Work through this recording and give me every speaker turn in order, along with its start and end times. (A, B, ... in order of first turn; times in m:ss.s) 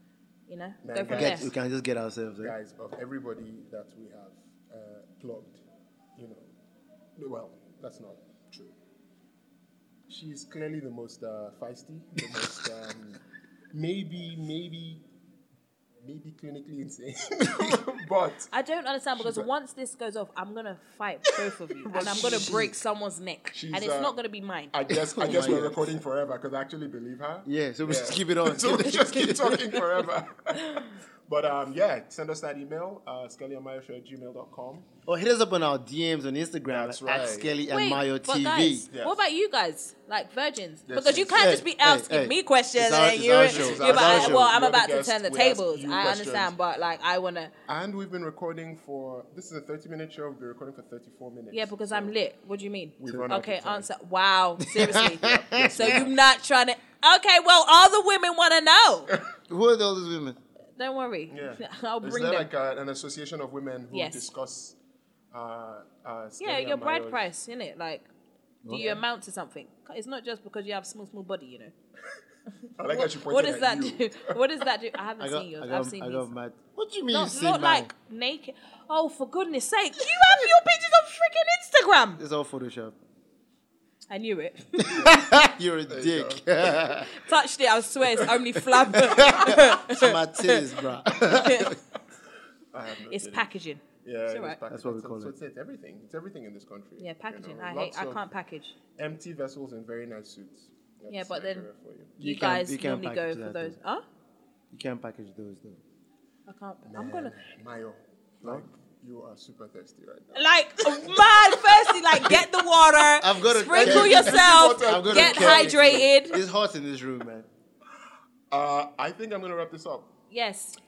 0:00.5-0:01.5 A
0:00.8-0:01.5 B
0:01.1-0:02.5 C
0:02.4-0:05.6 B
0:06.2-0:06.5 B
0:07.2-0:08.7 B
0:10.1-0:13.2 B
0:13.7-0:15.0 B
0:16.0-0:18.5 B
0:18.5-0:24.7 A
0:19.2-0:19.5 B
0:21.3-0:22.8 B
0:22.0-0:22.7 C
0:23.5-0:24.2 B
0:24.7-0:34.9 B
0:24.9-0:25.9 C
0:27.4-0:30.0 C
0:30.6-0:30.9 A
0:35.1-0:38.8 C
0:36.7-0:37.5 B
0:37.7-0:47.5 A
0:38.9-0:39.2 B
0:40.9-0:41.4 B
0:41.3-0:44.5 C
0:43.4-0:46.5 B
0:47.7-0:52.1 B
0:51.5-0:59.1 A
0:53.0-0:53.9 B
0:53.0-0:53.4 C
0:54.6-0:56.0 C
0:54.8-0:56.2 B
0:59.5-1:00.4 C
1:00.8-1:02.5 A
1:01.3-1:04.8 B
1:03.9-1:04.3 A
1:05.3-1:07.3 B
1:06.4-1:08.1 A
1:08.6-1:08.9 C
1:08.7-1:11.7 A
1:08.7-1:09.0 B
1:12.8-1:14.4 B
1:12.8-1:16.3 A
1:15.2-1:17.9 C
1:17.1-1:22.2 A
1:22.2-1:23.0 C
1:24.1-1:25.1 A
1:24.8-1:27.2 C
1:24.9-1:25.3 B
1:25.9-1:27.0 B
1:27.1-1:30.6 A
1:28.9-1:31.8 C
1:28.9-1:29.5 B
1:31.2-1:31.8 A
1:32.7-1:33.5 B
1:33.1-1:34.6 A
1:34.0-1:38.2 B
1:34.7-1:35.3 C
1:37.0-1:38.7 A
1:39.0-1:42.1 B
1:41.1-1:44.0 A
1:42.2-1:43.8 C
1:44.7-1:45.8 C
1:46.5-1:47.3 A
1:46.8-1:52.5 B
1:50.3-1:56.4 A
1:53.2-1:57.5 C
1:53.6-1:56.1 B
1:58.5-2:00.1 B
2:00.3-2:00.8 A